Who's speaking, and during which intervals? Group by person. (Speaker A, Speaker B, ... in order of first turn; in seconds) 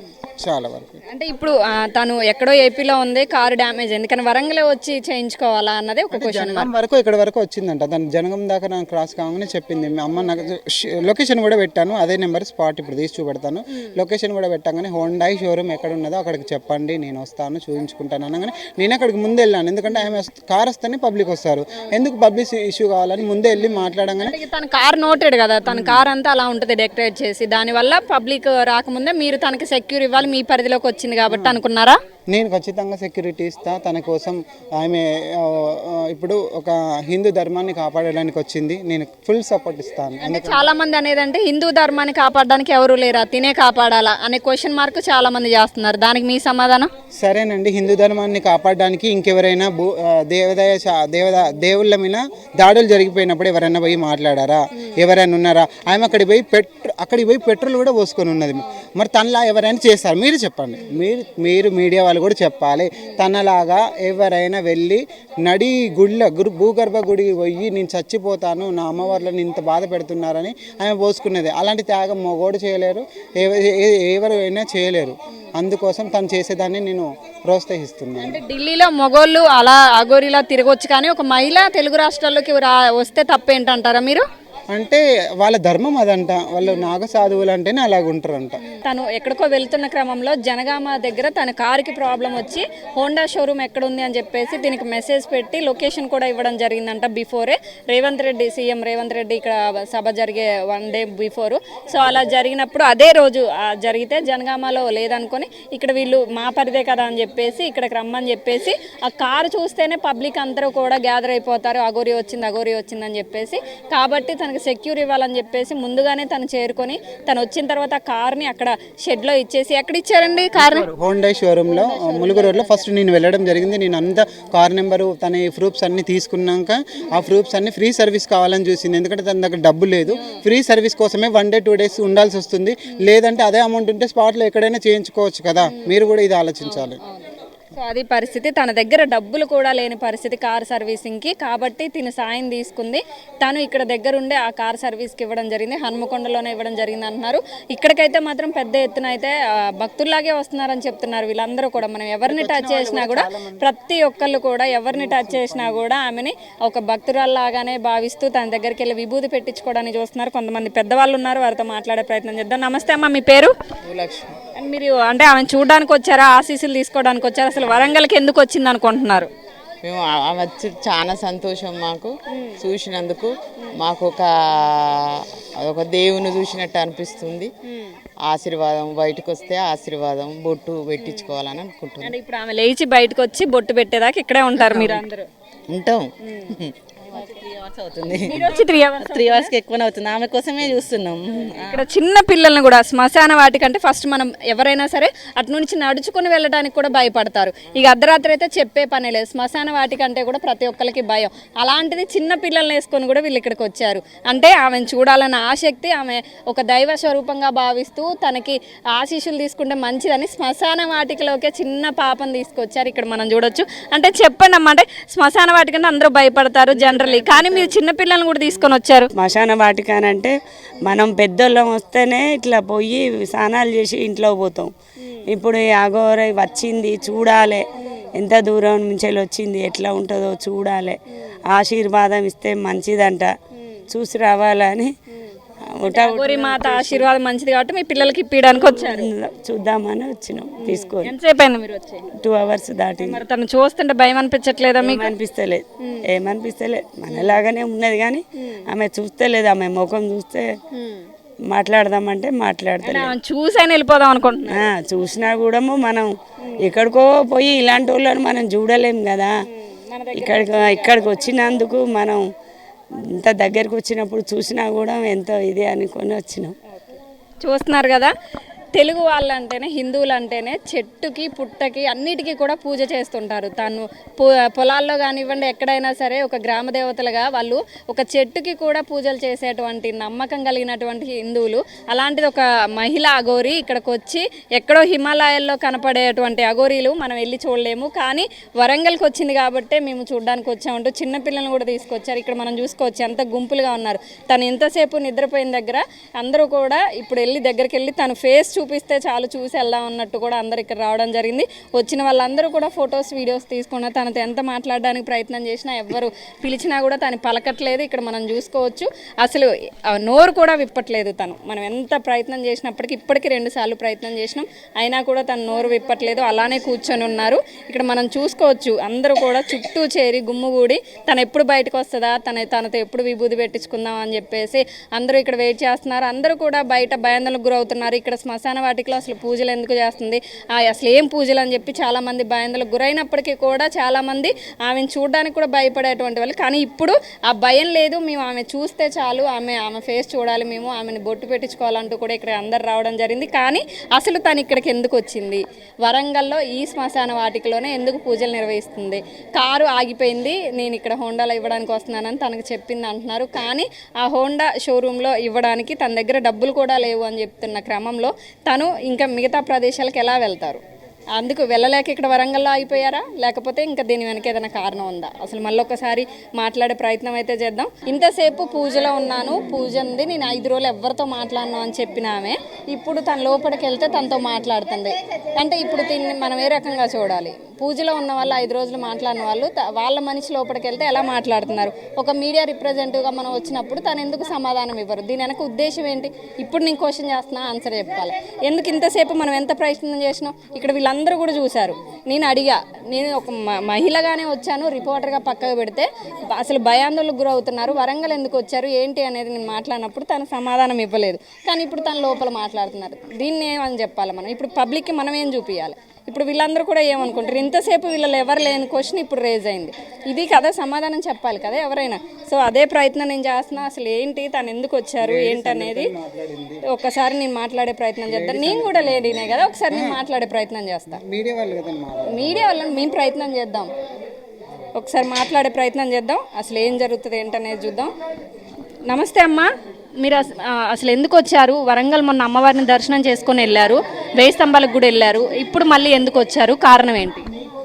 Speaker A: 0.4-1.0, 6.1-24.4, 25.7-26.0, 31.3-31.6, 32.3-40.7, 47.2-78.4, 84.7-88.6, 120.5-137.0, 152.2-153.7, 154.9-155.8, 415.0-416.6, 418.1-420.0, 420.9-422.5
Speaker B: 1.1-6.7, 23.6-32.0, 40.2-46.9, 78.2-84.2, 88.7-120.9, 121.7-122.8, 130.1-130.4, 135.7-135.9, 136.6-137.2, 137.8-163.5, 164.6-169.3, 172.3-172.6, 182.0-185.2, 186.2-186.5, 188.2-189.5, 191.6-219.1, 225.0-225.3, 235.9-239.1, 240.6-242.1, 243.0-245.1, 247.1-247.4, 248.4-248.6, 250.7-251.1, 252.8-254.7, 259.5-261.3, 267.4-268.1, 268.7-360.6, 361.1-415.9, 416.6-421.0, 422.1-423.7, 424.8-427.9, 428.9-437.2
Speaker C: 163.8-164.3, 169.8-177.5, 178.2-182.1, 184.6-185.0, 185.7-186.7
Speaker D: 187.1-191.8
Speaker E: 219.2-224.7, 225.3-233.3, 233.9-234.9, 235.7-237.1, 238.6-241.1, 242.2-243.2, 244.8-250.6, 251.5-253.1, 254.5-259.3, 260.1-262.2, 263.0-266.5